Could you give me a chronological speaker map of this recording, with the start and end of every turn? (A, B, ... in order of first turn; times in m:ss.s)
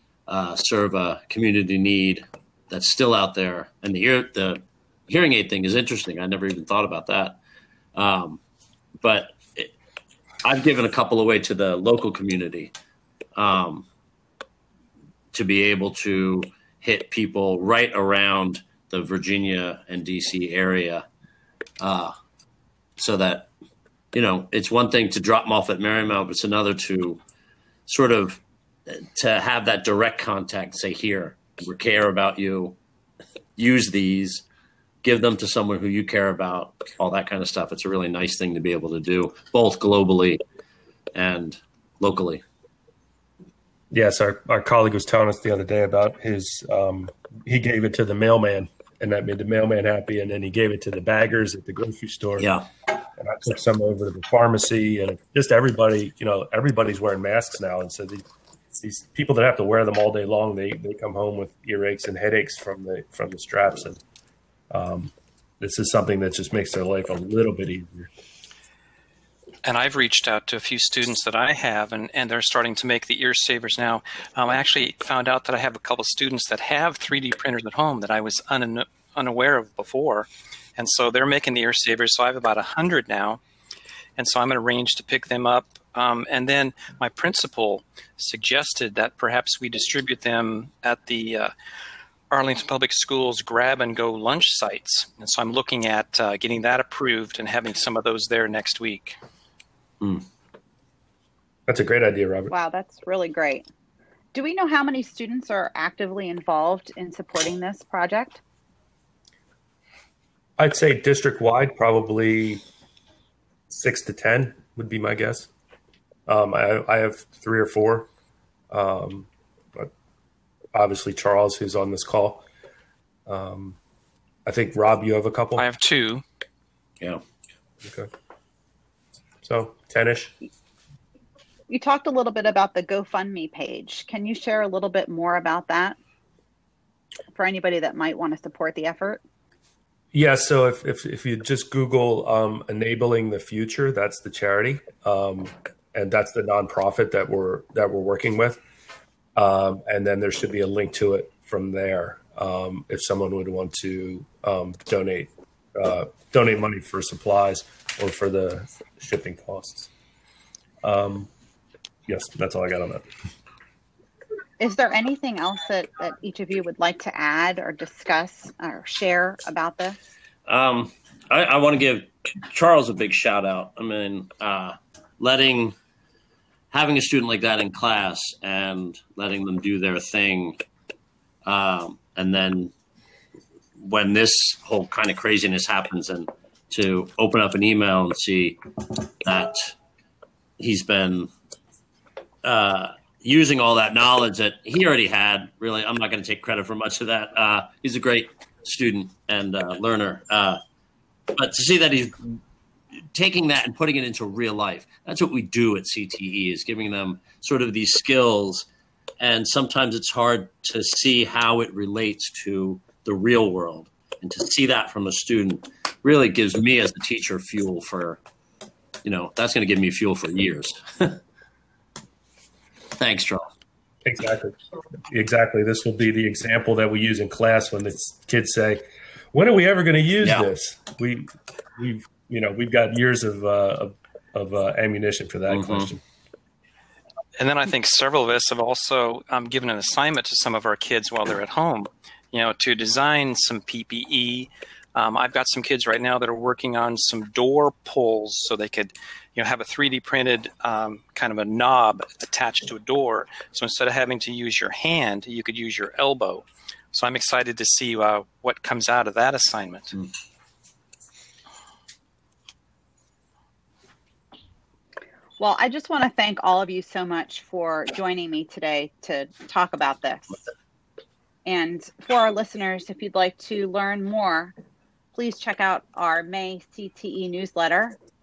0:00.3-0:07.4 A
0:07.9-0:08.4 A
0:09.0-0:09.7 A
0:10.4-0:12.7 A
0:13.4-0:13.8 A
0:15.3-0:21.0 A
0:21.8-0:22.1 A
0:23.0-0:23.5 A
0:24.1-0:27.2 A
0:27.9-0:32.8 A
0:33.6-0:34.4 A
0:35.0-0:40.4 A
0:41.1-0:42.4 A
0:43.9-0:52.5 B
0:52.4-0:52.6 A
0:53.2-1:04.0 B
1:04.7-1:08.1 B
1:09.6-1:23.4 C
1:24.2-1:31.5 C
1:32.3-1:39.2 C
1:41.7-1:42.5 B
1:42.5-1:43.7 D
1:44.3-1:48.4 D
1:50.6-1:52.6 B
1:53.7-1:55.5 B
1:56.3-1:58.1 B
1:58.7-1:59.9 B
2:00.7-2:02.4 B
2:03.3-2:03.8 B
2:04.4-2:05.7 B
2:05.6-2:06.2 C
2:07.8-2:08.1 B
2:09.4-2:10.3 B
2:11.7-2:16.0 D
2:17.3-2:19.2 D
2:20.1-2:28.6 B
2:29.4-2:39.9 B
2:40.8-2:41.3 B
2:42.1-2:43.0 B
2:44.6-2:50.0 D
2:50.5-2:55.8 A
2:56.7-3:00.6 A
3:01.4-3:02.7 A
3:03.8-3:08.6 A
3:09.2-3:09.7 A
3:10.6-3:11.3 A
3:12.4-3:20.6 A
3:21.3-3:22.4 A
3:23.1-3:28.6 A
3:29.2-3:38.2 A
3:39.0-3:41.2 A
3:43.0-3:43.4 A
3:44.0-3:44.5 B
3:45.1-3:51.3 B
3:50.2-3:50.5 A
3:51.8-3:56.0 B
3:55.5-3:55.9 A
3:57.4-4:19.9 C
4:25.4-4:30.4 D
4:31.4-4:34.5 D
4:35.1-4:38.0 D